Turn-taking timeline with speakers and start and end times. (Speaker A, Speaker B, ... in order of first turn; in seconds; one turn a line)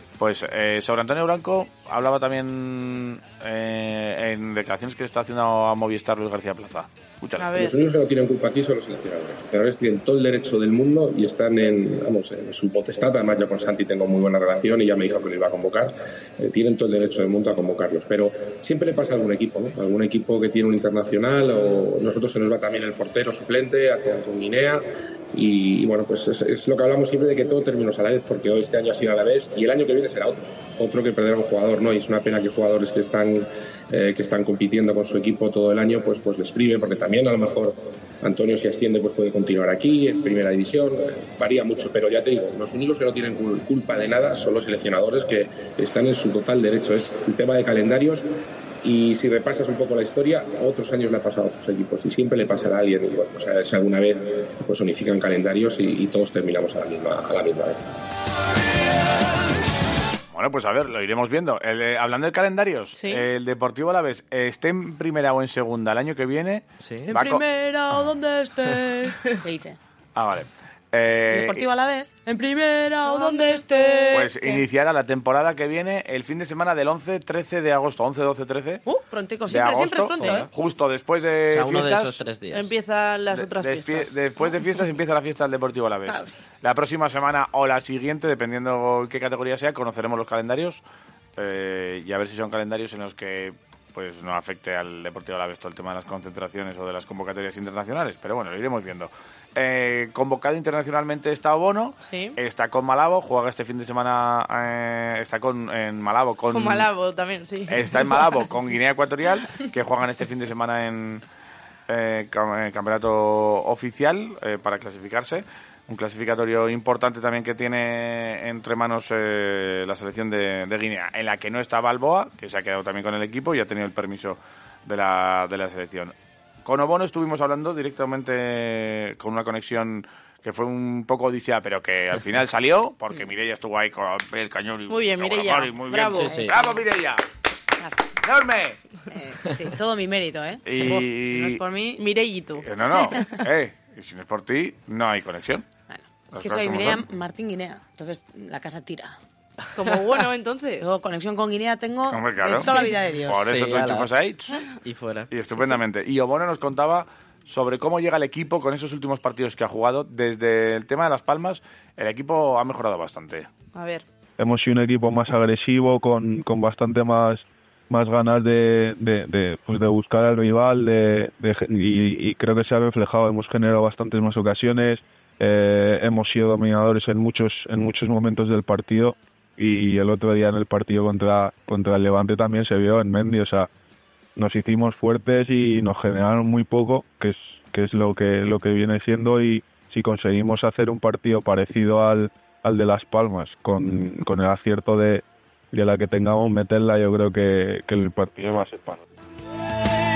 Speaker A: 0.2-7.5
Speaker B: 7.4-7.8
Speaker C: 7.5-48.3
Speaker C: 48.8-57.8
Speaker A: 60.3-67.4
Speaker B: 63.0-63.2
Speaker D: 66.8-67.1
Speaker E: 67.1-69.8
Speaker A: 70.2-71.7
Speaker E: 71.3-74.7
Speaker B: 73.0-74.3
Speaker A: 74.1-78.8
Speaker E: 78.9-80.5
Speaker A: 79.5-82.2
Speaker D: 80.2-80.5
Speaker D: 81.5-82.7
Speaker B: 82.5-84.1
Speaker A: 83.3-90.8
Speaker E: 86.1-86.4
Speaker A: 91.4-106.9
Speaker B: 102.0-102.4
Speaker B: 106.5-108.2
Speaker A: 107.7-111.2
Speaker A: 111.9-137.2
Speaker B: 134.9-136.4
Speaker E: 136.2-136.8
Speaker E: 137.8-138.1
Speaker A: 138.2-138.8
Speaker E: 139.1-142.0
Speaker A: 140.7-141.6
Speaker B: 142.0-142.7
Speaker A: 142.6-145.7
Speaker E: 145.9-149.2
Speaker A: 146.3-147.0
Speaker B: 149.8-150.9
Speaker E: 150.8-153.5
Speaker A: 152.1-152.8
Speaker A: 153.3-154.6
Speaker D: 153.4-154.1
Speaker D: 154.8-155.3
Speaker A: 155.3-163.5
Speaker B: 163.8-164.0
Speaker F: 164.4-183.7
Speaker F: 184.4-199.0